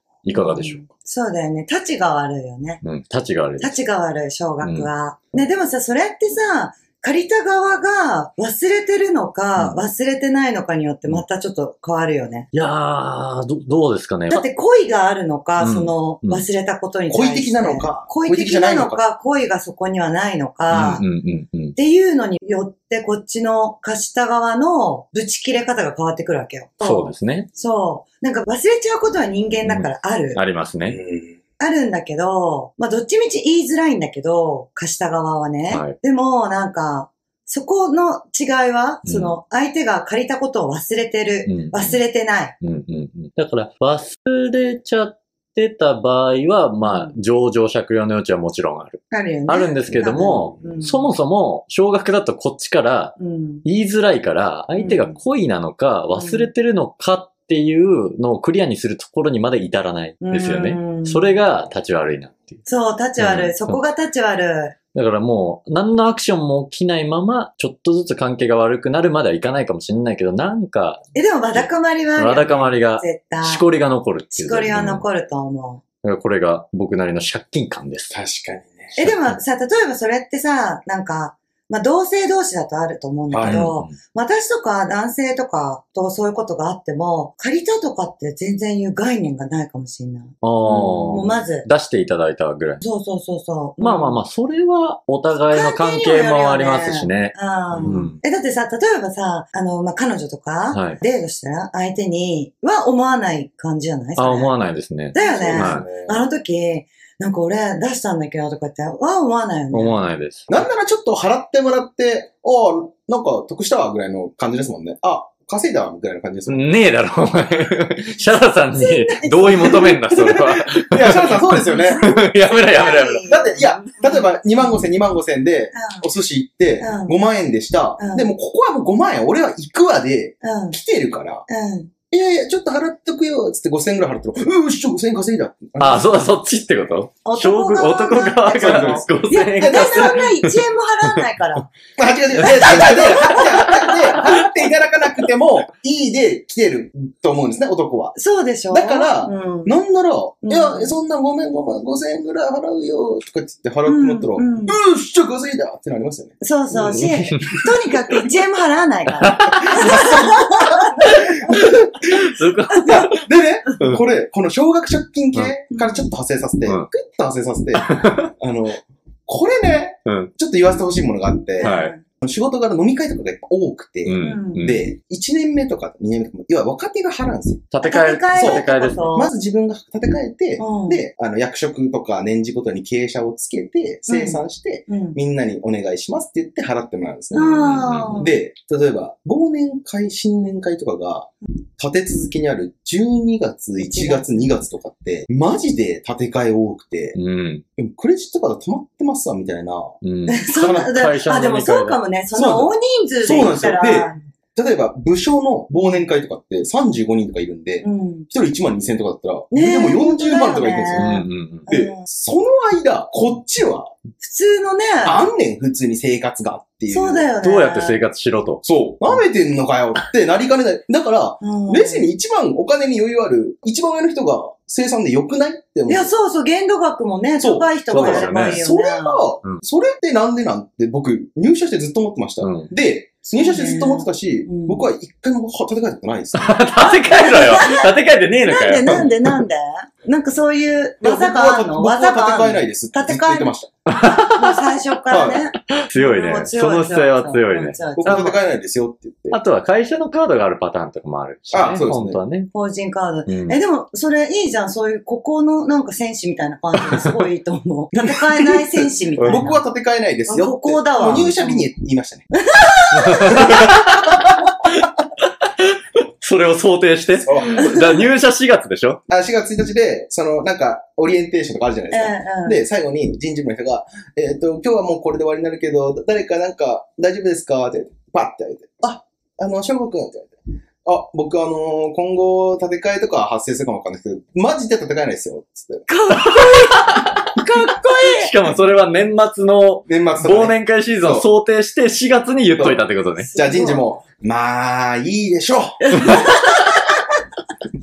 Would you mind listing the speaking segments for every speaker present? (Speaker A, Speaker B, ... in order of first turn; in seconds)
Speaker A: 0.2-0.9, 2.8-3.8, 4.6-4.9, 9.6-9.9, 12.5-14.4, 15.6-16.4, 20.7-21.7, 26.8-27.5, 29.6-31.0, 35.7-35.9, 39.0-39.3, 41.4-42.0, 42.6-62.6, 63.2-63.8, 64.9-75.0, 76.0-78.1, 79.0-79.3, 83.4-83.9, 90.4-92.8, 93.8-98.2, 100.7-101.0, 104.2-105.8, 109.7-110.6, 116.5-123.2, 135.8-140.6, 142.4-144.4, 156.9-157.6, 159.2-160.3, 161.0-163.2, 167.8-168.3, 170.1-170.3, 171.6-171.9, 174.0-174.9, 177.7-179.1, 187.6-188.2, 197.1-197.6, 200.0-202.0, 210.9-211.7, 217.4-218.6, 227.9-228.6, 232.4-232.7, 236.4-239.4, 243.9-244.6, 245.9-248.3, 249.3-252.5, 253.3-253.6, 257.0-257.2, 259.2-259.6, 262.9-269.0, 286.2-287.1, 287.7-293.3
Speaker B: 0.3-2.8, 3.6-12.5, 14.3-21.0, 21.7-30.4, 31.6-42.5, 46.8-47.1, 49.1-51.1, 53.2-53.6, 54.8-55.2, 56.1-56.5, 60.2-61.3, 62.6-64.7, 71.1-73.6, 74.3-75.8, 79.0-90.4, 91.1-91.7, 92.8-94.2, 95.5-104.5, 105.1-110.0, 118.7-120.0, 121.8-124.8, 125.7-126.0, 126.8-127.1, 128.0-128.3, 130.4-130.8, 131.5-131.9, 137.2-141.7, 142.5-143.2, 148.2-149.7, 150.4-150.9, 153.8-154.8, 156.4-161.2, 162.8-163.1, 165.7-166.1, 171.6-172.0, 174.2-174.7, 177.8-179.3, 180.6-181.0, 184.1-185.2, 187.3-188.3, 193.8-194.3, 200.3-204.2, 205.7-206.0, 207.8-208.3, 209.5-212.0, 214.2-215.3, 216.9-218.0, 221.4-222.1, 225.9-229.3, 233.3-234.8, 236.8-248.4, 252.5-259.6, 260.3-261.6, 262.3-263.6, 271.9-272.6, 285.9-288.3, 293.3-293.8, 295.8-296.9
Speaker C: 17.1-19.0, 30.8-31.4, 78.1-79.0, 83.3-83.7, 90.7-91.5, 97.7-98.1, 105.1-106.3, 110.5-116.7, 120.0-122.3, 122.8-131.4, 132.1-136.1, 138.6-140.2, 141.9-148.2, 148.7-157.4, 159.6-161.7, 162.8-177.7, 178.3-197.2, 197.8-199.9, 200.6-201.0, 202.3-213.9, 215.0-217.3, 218.6-226.1, 227.4-236.6, 241.0-243.7, 245.1-245.4, 247.9-249.4, 251.5-252.2, 259.2-262.3, 263.3-263.8, 267.2-268.1, 269.1-285.9, 289.9-291.3, 292.6-296.2